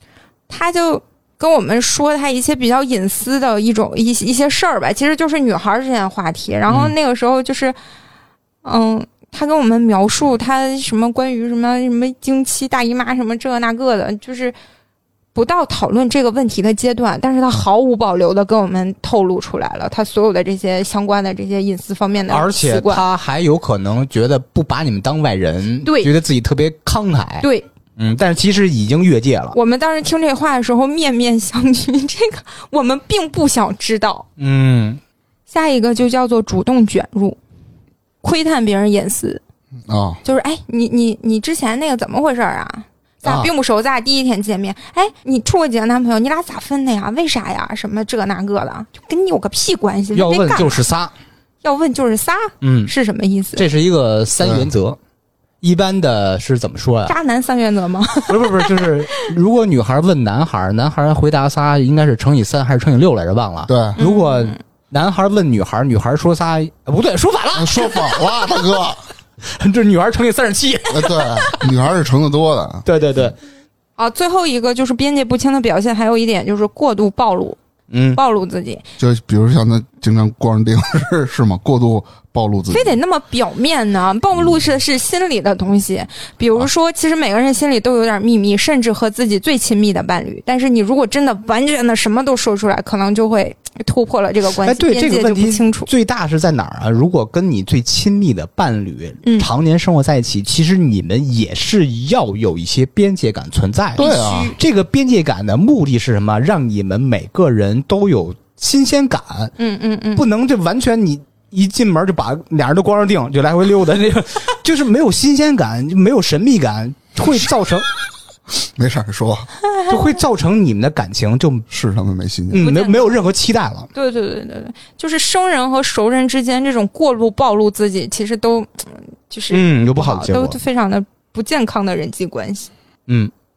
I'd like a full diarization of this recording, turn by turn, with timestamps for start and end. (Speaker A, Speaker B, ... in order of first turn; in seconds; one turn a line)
Speaker A: 0.5-7.8
Speaker B: 6.7-6.9
Speaker A: 8.6-14.6
Speaker A: 15.3-23.0
Speaker B: 22.3-29.6
Speaker A: 25.8-26.1
Speaker A: 27.4-27.7
Speaker A: 29.5-34.3
Speaker B: 34.4-35.0
Speaker A: 35.5-37.4
Speaker A: 38.2-39.4
Speaker C: 39.9-40.2
Speaker A: 40.2-50.8
Speaker B: 43.2-43.5
Speaker B: 50.1-51.1
Speaker A: 51.6-53.6
Speaker B: 52.6-52.9
Speaker B: 53.6-55.0
Speaker C: 54.4-54.7
Speaker B: 55.6-57.1
Speaker A: 57.1-58.9
Speaker B: 58.3-68.1
Speaker C: 63.7-64.0
Speaker A: 64.0-64.6
Speaker C: 67.5-69.0
Speaker B: 69.4-71.7
Speaker C: 70.9-72.8
Speaker B: 72.8-73.4
Speaker A: 74.0-77.6
Speaker B: 77.9-78.2
Speaker A: 78.1-78.8
Speaker C: 79.0-83.0
Speaker A: 82.7-95.9
Speaker B: 94.6-109.5
Speaker A: 99.2-99.5
Speaker C: 104.0-104.5
Speaker A: 104.0-104.5
Speaker A: 109.6-110.2
Speaker B: 110.2-117.9
Speaker C: 118.7-119.5
Speaker B: 119.9-121.7
Speaker C: 121.7-122.7
Speaker B: 122.5-123.9
Speaker A: 122.6-123.2
Speaker A: 123.9-132.7
Speaker B: 129.5-130.6